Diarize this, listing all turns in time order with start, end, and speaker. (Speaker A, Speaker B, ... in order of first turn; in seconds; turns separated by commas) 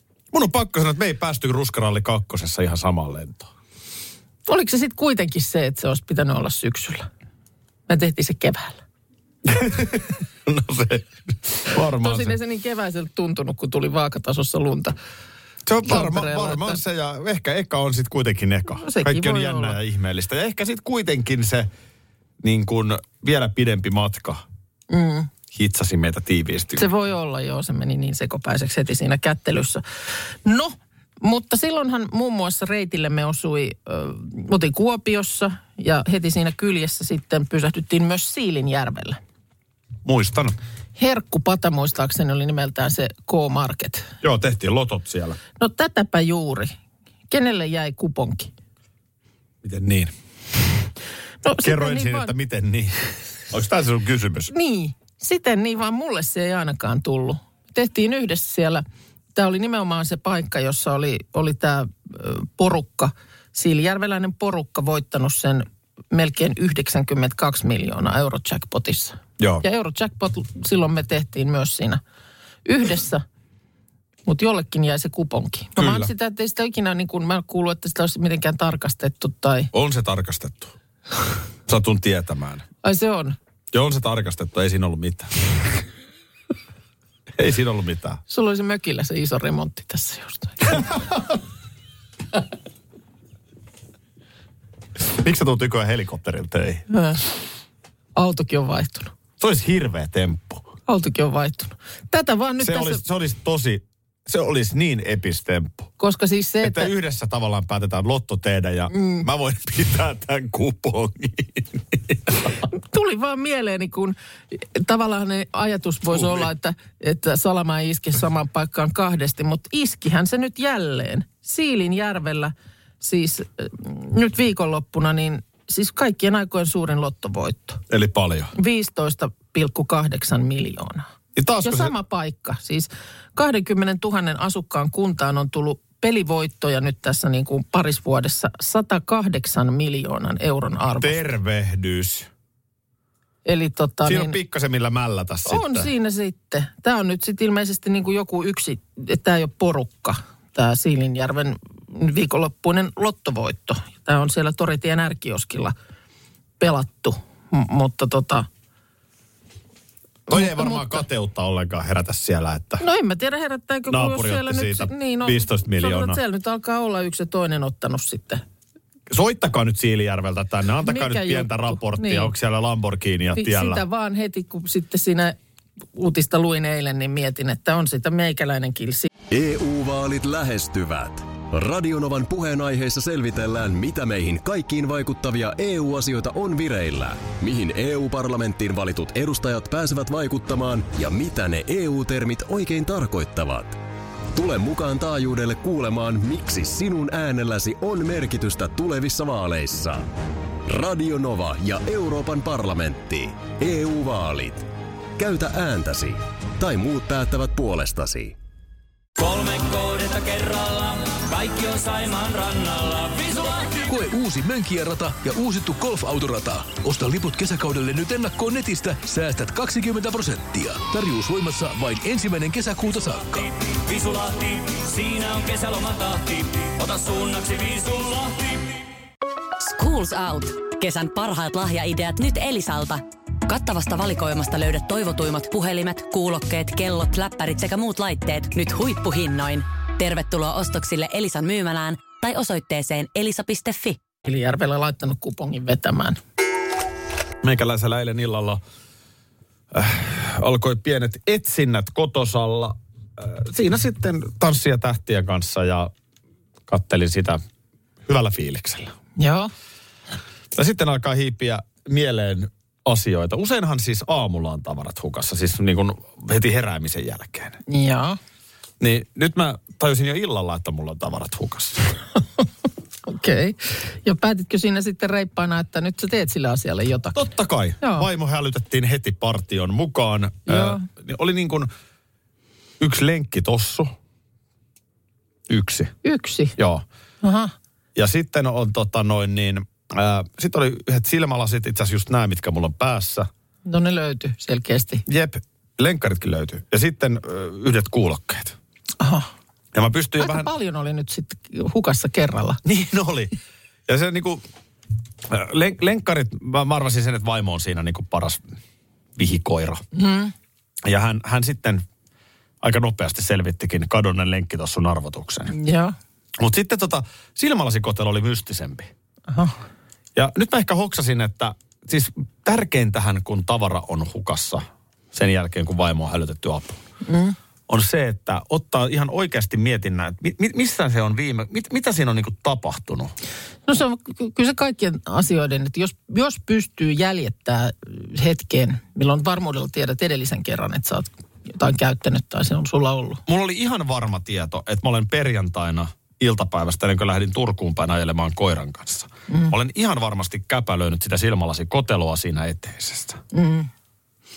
Speaker A: 0.3-3.5, Speaker B: 4.5-7.1, Speaker B: 7.9-8.8, Speaker A: 9.4-12.4, Speaker B: 11.9-14.9, Speaker A: 15.7-21.7, Speaker B: 15.8-16.8, Speaker B: 18.8-19.8, Speaker A: 22.4-24.4, Speaker B: 24.9-25.3, Speaker A: 25.5-26.9, Speaker B: 26.8-29.8, Speaker B: 30.4-39.2, Speaker A: 40.0-40.6, Speaker B: 41.0-44.1, Speaker A: 44.2-45.4, Speaker B: 45.6-46.7, Speaker B: 47.3-48.5, Speaker A: 49.6-50.1, Speaker B: 51.4-52.3, Speaker A: 51.6-53.0, Speaker A: 53.5-54.5, Speaker B: 54.5-58.8, Speaker B: 59.3-72.0, Speaker A: 69.4-69.6, Speaker B: 72.6-73.2, Speaker B: 74.2-79.7, Speaker A: 75.8-76.1, Speaker A: 79.7-80.7, Speaker A: 81.7-82.6, Speaker B: 82.8-83.4, Speaker A: 83.7-85.3, Speaker A: 87.4-88.2, Speaker B: 88.3-90.9, Speaker A: 95.0-96.8, Speaker B: 96.9-97.3, Speaker B: 98.1-99.1, Speaker A: 99.4-100.7, Speaker B: 100.9-103.0, Speaker A: 102.6-105.9, Speaker B: 106.0-106.9, Speaker A: 106.6-112.4, Speaker B: 108.9-109.2, Speaker B: 112.7-127.8, Speaker A: 116.1-116.5, Speaker A: 127.9-128.5, Speaker B: 128.5-131.1, Speaker A: 131.3-131.9, Speaker B: 131.6-141.2, Speaker A: 141.0-142.3, Speaker B: 143.4-144.3, Speaker A: 144.0-145.9, Speaker B: 145.5-155.7, Speaker B: 156.6-158.5, Speaker B: 160.3-161.0, Speaker A: 160.3-162.8, Speaker B: 162.8-168.4, Speaker A: 163.9-166.2, Speaker A: 169.1-173.8, Speaker B: 170.8-172.3, Speaker B: 173.3-175.3, Speaker B: 175.9-179.1, Speaker C: 179.3-193.8, Speaker C: 194.3-200.1, Speaker C: 200.7-208.4, Speaker D: 209.2-213.7, Speaker E: 213.8-223.5, Speaker D: 223.8-228.6, Speaker F: 229.6-244.0, Speaker B: 244.2-246.2, Speaker A: 247.4-248.6, Speaker A: 249.7-255.9, Speaker A: 256.7-257.4, Speaker A: 258.1-258.9, Speaker B: 259.2-259.5, Speaker A: 260.5-267.6, Speaker B: 267.7-268.2, Speaker A: 268.8-271.9, Speaker B: 273.1-277.2, Speaker A: 277.1-281.7, Speaker B: 277.8-278.1, Speaker B: 280.5-280.8, Speaker A: 282.8-283.9, Speaker A: 285.5-285.9, Speaker B: 286.0-286.5, Speaker A: 286.6-286.8, Speaker B: 287.2-287.5, Speaker A: 287.9-293.3, Speaker B: 293.6-295.0, Speaker A: 295.1-298.5, Speaker B: 299.0-299.3, Speaker A: 299.7-300.5, Speaker B: 300.2-302.6, Speaker A: 302.6-303.3, Speaker A: 303.9-304.4, Speaker A: 305.3-308.6, Speaker A: 309.1-309.8, Speaker B: 309.9-310.3, Speaker A: 310.8-311.8, Speaker A: 312.6-315.5, Speaker B: 315.5-315.9, Speaker A: 316.4-318.9, Speaker B: 319.3-319.6, Speaker A: 320.1-326.8, Speaker B: 327.0-327.4, Speaker A: 327.7-333.1, Speaker B: 333.6-343.2, Speaker A: 343.3-353.2, Speaker B: 353.3-353.7